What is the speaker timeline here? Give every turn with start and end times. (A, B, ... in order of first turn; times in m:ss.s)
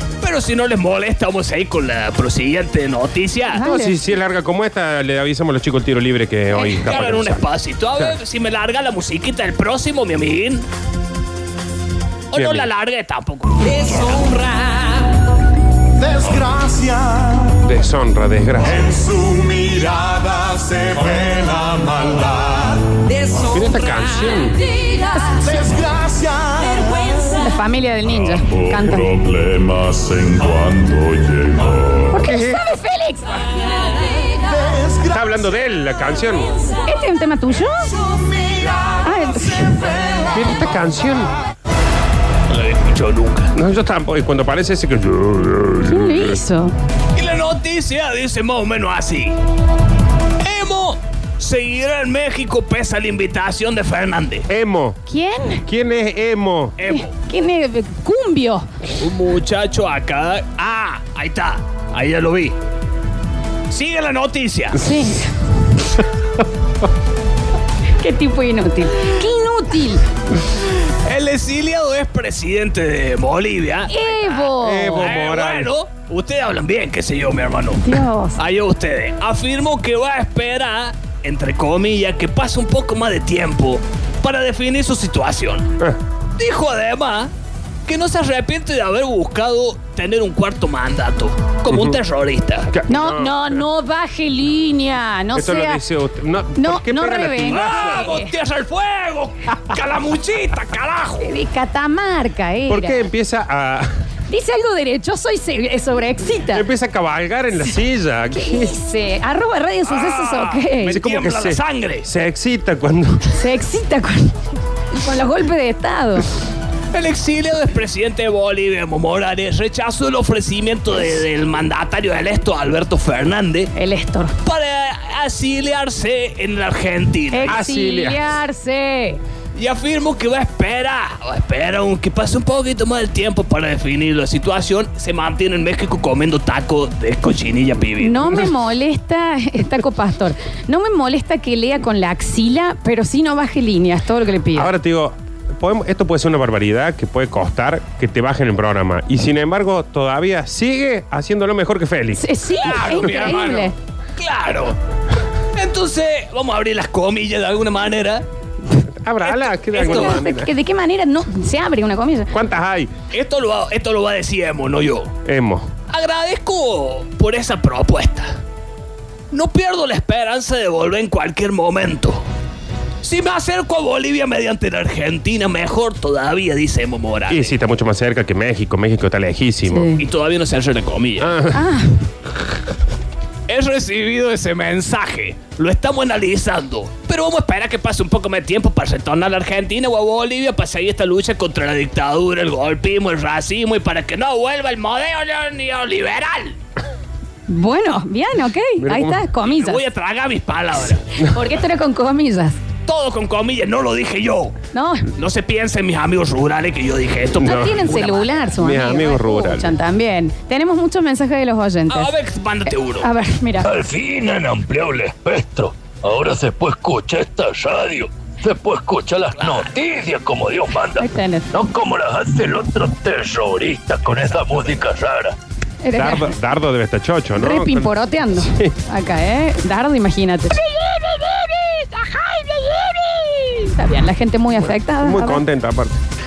0:00.2-0:03.6 A
0:03.5-0:04.0 B
0:03.6-0:08.2 C
0:06.5-0:06.9 B
0:06.9-0:10.7 A
0:12.3-0:14.5 A
0:12.3-0:12.7 C
0:16.0-0:17.5 D
0:17.6-0:18.9 C
0:18.6-0:22.9 D
0:23.5-0:24.6 C
0:24.9-0:25.4 B
0:25.4-0:27.2 D
0:27.3-0:29.1 B
0:28.3-0:32.2 D
0:32.1-0:34.0 B
0:32.2-0:32.6 C
0:34.6-0:35.1 D
0:35.1-0:36.6 C
0:36.9-0:38.0 B
0:39.0-0:39.9 B
0:40.3-0:41.3 C
0:42.5-0:43.5 A
0:43.5-0:46.4 C
0:45.8-0:46.7 B
0:47.1-0:49.4 A
0:50.4-0:54.5 A
0:54.5-0:55.0 C
0:55.1-0:55.6 B
0:55.7-0:56.8 C
0:56.8-0:57.1 A
0:56.9-0:58.7 B
0:59.0-1:02.5 A
1:03.7-1:04.8 A
1:04.8-1:05.2 B
1:08.0-1:10.0 B
1:11.0-1:17.9 A
1:13.9-1:15.1 B
1:14.6-1:15.7 C
1:17.8-1:18.4 B
1:18.4-1:25.7 A
1:26.4-1:27.3 A
1:27.9-1:32.7 A
1:31.7-1:32.0 C
1:32.7-1:33.6 C
1:32.9-1:35.8 B
1:35.3-1:38.0 C
1:36.6-1:38.3 B
1:37.4-1:41.3 A
1:41.2-1:43.0 B
1:42.7-1:43.9 C
1:44.3-1:46.6 B
1:46.5-1:48.7 C
1:48.3-1:51.0 B
1:49.9-1:52.1 A
1:50.9-1:53.4 C
1:53.3-1:54.3 B
1:55.0-1:56.2 B
1:56.9-2:03.7 A
2:03.8-2:04.3 B
2:04.4-2:07.6 A
2:07.3-2:09.2 B
2:07.4-2:08.3 C
2:09.5-2:18.3 A
2:18.0-2:24.7 B
2:24.5-2:33.5 C
2:32.2-2:33.7 B
2:32.6-2:34.8 A
2:35.5-2:38.2 A
2:39.0-2:40.5 C
2:39.2-2:40.2 A
2:39.7-2:42.3 B
2:42.3-2:42.9 C
2:43.1-2:45.1 A
2:45.2-2:45.7 C
2:45.9-2:48.4 A
2:49.3-2:52.2 A
2:53.0-2:57.5 A
2:57.3-2:59.9 C
2:59.7-3:00.0 B
3:00.0-3:01.4 A
3:01.2-3:01.6 C
3:01.5-3:01.9 B
3:03.5-3:16.6 A
3:17.5-3:19.8 B
3:18.8-3:19.3 C
3:19.4-3:21.0 A
3:21.3-3:22.6 B
3:22.9-3:24.5 A
3:24.7-3:25.1 B
3:25.1-3:28.3 A
3:27.4-3:27.9 C
3:27.4-3:32.1 B
3:28.6-3:29.7 C
3:31.9-3:33.1 A
3:33.0-3:33.7 B
3:33.6-3:45.4 E
3:39.4-3:39.7 A
3:41.0-3:41.5 B
3:45.8-3:46.3 B
3:45.9-3:48.8 C
3:47.4-3:50.6 B
3:53.5-3:55.4 B
3:55.0-3:56.0 C